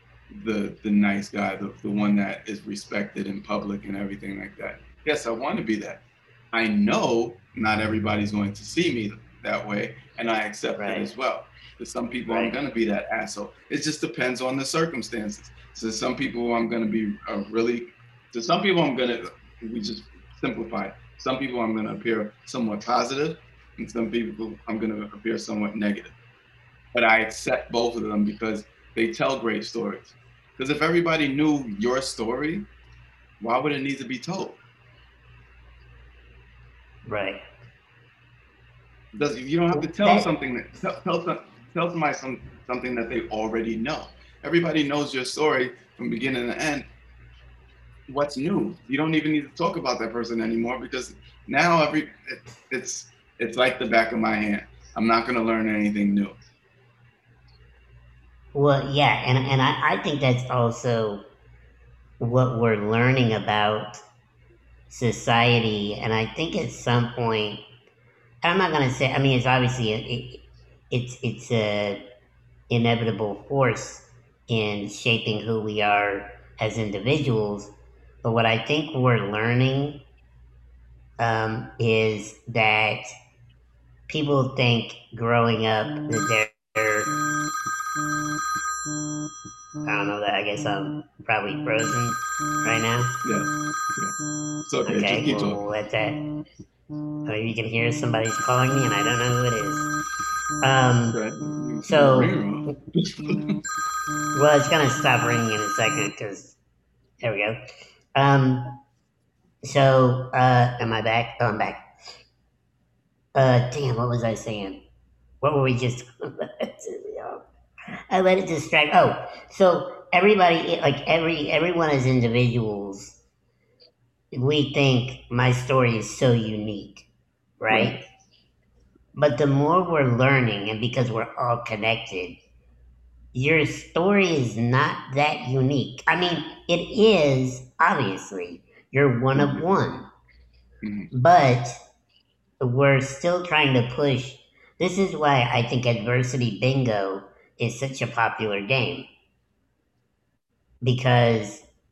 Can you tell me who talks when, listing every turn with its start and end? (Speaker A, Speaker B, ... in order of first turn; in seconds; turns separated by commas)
Speaker A: 0.3-26.1, Speaker B: 10.8-11.1, Speaker B: 12.3-12.6, Speaker A: 26.9-32.7, Speaker A: 33.4-34.6, Speaker B: 37.0-37.4, Speaker A: 39.1-46.9, Speaker B: 39.7-40.3, Speaker A: 48.1-56.4, Speaker B: 58.5-61.2, Speaker B: 62.2-64.0, Speaker B: 64.9-67.6, Speaker B: 68.4-72.0, Speaker B: 72.7-77.7, Speaker B: 78.2-80.0, Speaker B: 81.2-83.1, Speaker B: 84.1-87.1, Speaker B: 89.8-93.1, Speaker A: 93.2-95.6, Speaker B: 94.8-96.2, Speaker B: 97.3-99.9, Speaker B: 100.6-101.2, Speaker A: 101.1-103.6, Speaker B: 101.8-102.3, Speaker B: 104.3-106.6, Speaker B: 107.2-107.6, Speaker B: 108.2-108.7, Speaker B: 109.6-111.9, Speaker B: 113.3-114.8, Speaker B: 115.4-117.4, Speaker B: 118.1-123.2, Speaker B: 124.3-127.1, Speaker B: 127.6-128.0, Speaker A: 127.7-128.0, Speaker B: 129.2-132.4, Speaker B: 133.3-140.1, Speaker A: 139.3-139.6, Speaker A: 140.8-141.1, Speaker B: 141.1-141.8, Speaker B: 142.6-149.1, Speaker B: 150.8-151.6